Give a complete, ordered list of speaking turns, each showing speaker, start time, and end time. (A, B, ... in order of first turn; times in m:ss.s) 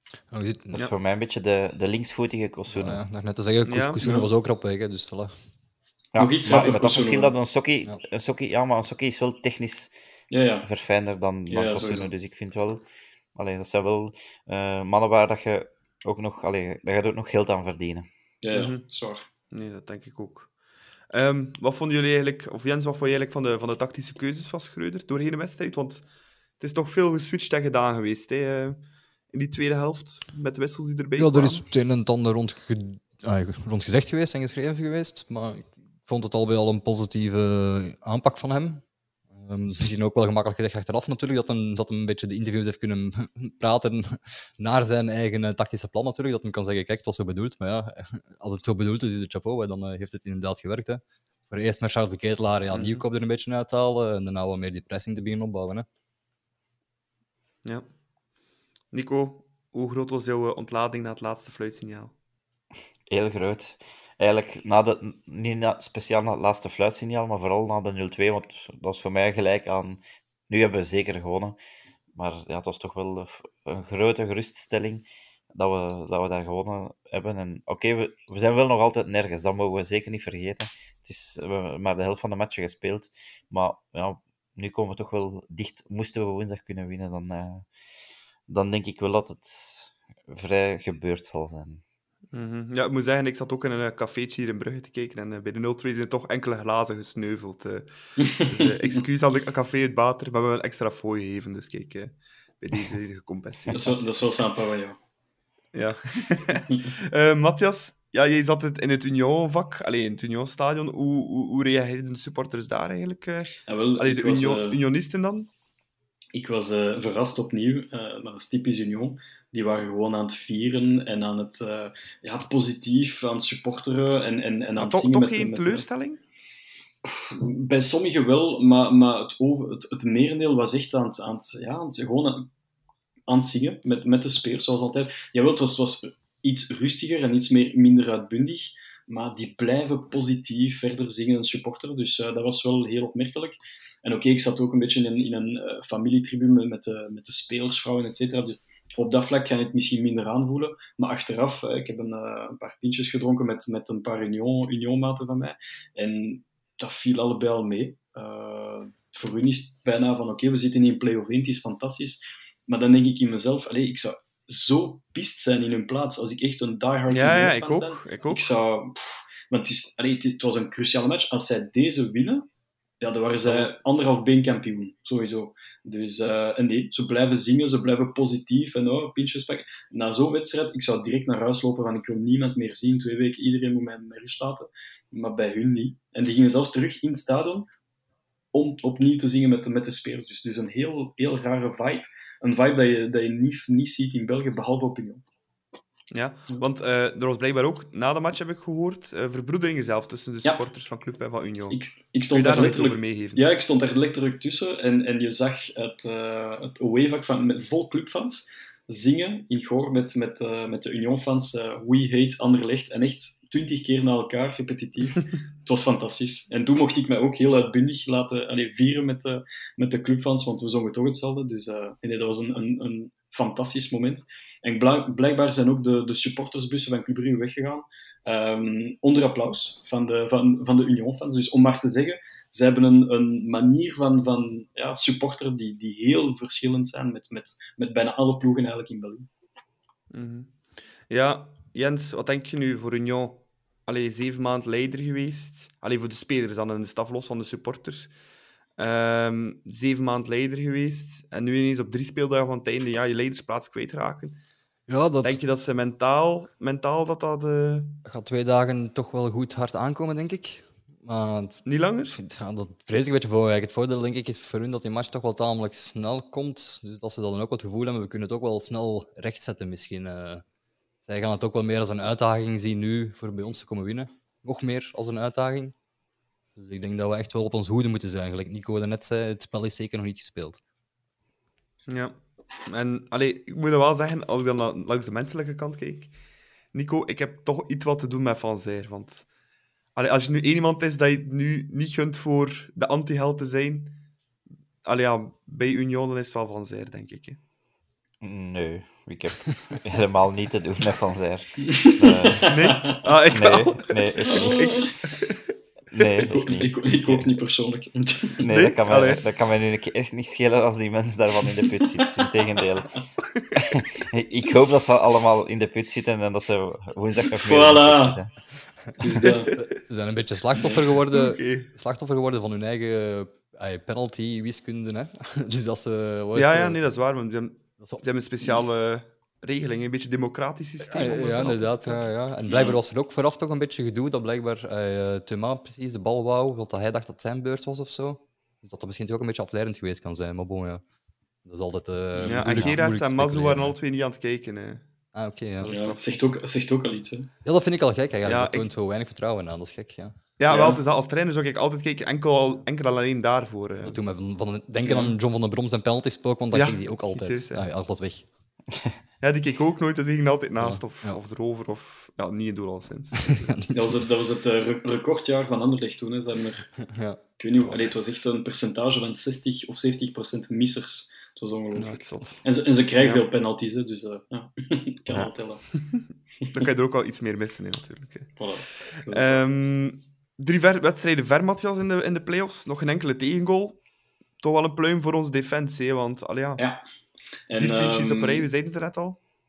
0:00.3-0:00.8 A
0:00.7-0:03.0 B
0:02.7-0:05.4 A
0:03.6-0:04.0 C
0:04.0-0:04.3 D
0:06.1-0:09.9 B
0:06.2-0:07.3 D
0:10.3-0:10.7 D
0:10.6-0:18.1 B
0:11.5-0:12.1 D
0:18.4-0:19.2 D
0:18.5-0:18.8 C
0:19.5-0:20.5 C
0:21.1-0:26.0 C
0:26.6-0:31.6 C
0:31.2-0:55.8 A
0:52.7-0:53.0 C
0:58.9-1:02.1 C
1:03.1-1:11.6 B
1:12.1-1:27.7 B
1:28.5-1:31.8 B
1:32.3-1:43.9 C
1:38.2-1:39.0 D
1:43.7-1:45.0 D
1:45.7-1:55.5 C
1:53.6-1:54.8 D
1:56.3-2:05.9 D
2:04.8-2:06.2 C
2:07.0-2:12.5 D
2:13.3-2:52.5 D
2:47.1-2:48.5 C
2:53.0-3:07.7 D
2:53.4-2:53.7 C
3:08.5-3:15.2 D
3:16.1-3:21.8 C
3:21.7-3:59.3 D
3:22.3-3:23.4 C
4:00.1-4:08.1 C
4:08.8-4:14.4 C
4:14.9-4:15.4 A
4:15.2-4:18.0 C
4:18.0-4:30.4 A
4:21.6-4:22.2 C
4:31.0-4:35.8 A
4:36.6-4:40.6 A
4:41.9-4:46.1 C
4:46.7-4:49.3 C
4:49.9-4:54.0 C
4:54.8-4:57.4 C
4:58.2-5:02.5 B
5:01.8-5:03.0 D
5:02.5-5:06.3 C
5:03.3-5:04.8 B
5:04.2-5:04.9 D
5:05.9-5:07.2 B
5:06.2-5:08.4 D
5:08.4-5:18.3 B
5:08.5-5:09.2 C
5:17.4-5:18.2 D
5:19.0-5:19.5 D
5:19.6-5:26.9 A
5:21.1-5:21.7 C
5:26.3-5:32.1 C
5:27.8-5:28.0 A
5:30.8-5:40.8 A
5:32.5-5:32.8 D
5:41.4-5:43.8 A
5:42.2-5:44.8 C
5:45.1-5:45.9 A
5:45.6-5:46.0 C
5:45.7-5:47.3 D
5:47.4-5:50.2 A
5:48.2-5:48.7 C
5:50.4-5:54.0 C
5:50.5-5:50.8 D
5:53.8-5:58.3 A
5:56.5-5:57.7 C
5:59.2-6:03.5 C
6:00.6-6:01.2 A
6:03.3-6:04.0 A
6:03.7-6:06.8 D
6:06.9-6:07.2 A
6:07.4-6:15.6 D
6:11.7-6:12.4 C
6:13.0-6:13.2 C
6:15.9-6:23.8 C
6:18.4-6:19.4 D
6:24.4-6:26.6 C
6:27.5-6:28.5 D
6:27.5-6:29.2 C